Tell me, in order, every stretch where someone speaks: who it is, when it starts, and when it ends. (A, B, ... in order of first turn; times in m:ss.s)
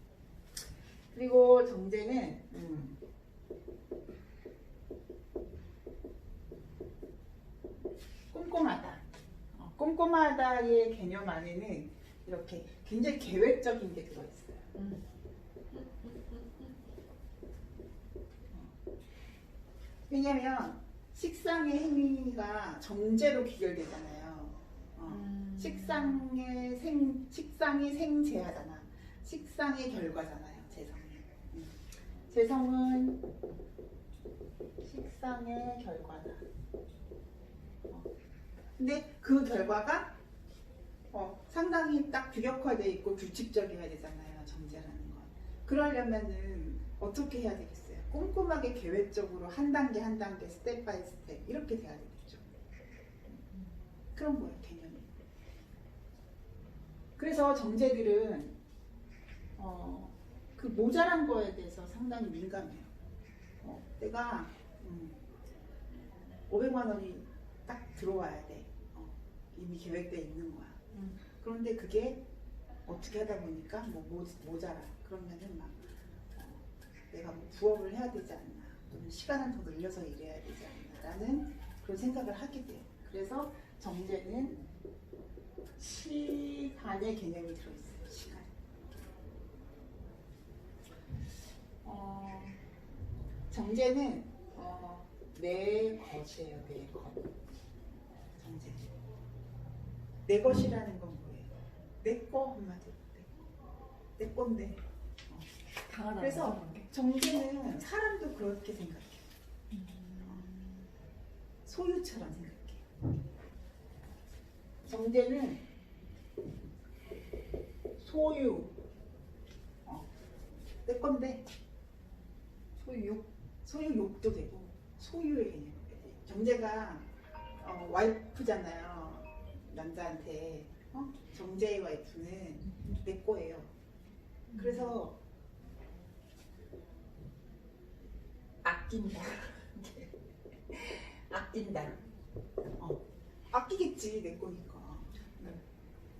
0:01.1-0:03.0 A
0:08.3-0:09.0 A
0:09.5-0:14.6 A
0:14.7-0:15.0 B
0:15.7-0:16.7 B
0:20.1-0:33.2 A
0:25.1-0:26.2 B
0:34.8-0:36.4 A
0:38.8-0:40.2 A
0:41.1-0:52.4 A
0:54.1-0:55.1 A
0:57.2-0:58.6 A
0:59.6-1:02.9 A
1:03.6-1:05.2 A
1:06.5-1:10.8 A
1:11.4-1:12.2 A
1:12.8-1:15.8 A
1:16.3-1:24.6 A
1:25.8-1:28.5 A
1:31.8-1:32.6 A
1:33.5-1:37.2 A
1:38.4-1:38.9 A
1:40.2-1:43.3 A
1:44.2-1:45.5 A
1:45.9-1:46.9 B
1:46.2-1:49.2 A
1:49.7-1:50.6 B
1:51.6-1:52.8 A
1:54.8-1:55.7 A
1:58.0-1:58.7 A
2:00.8-2:01.5 A
2:02.8-2:03.2 B
2:03.6-2:07.1 A
2:07.6-2:13.7 A
2:14.5-2:15.1 A
2:18.6-2:20.1 A
2:20.7-2:22.0 A
2:22.8-2:25.6 A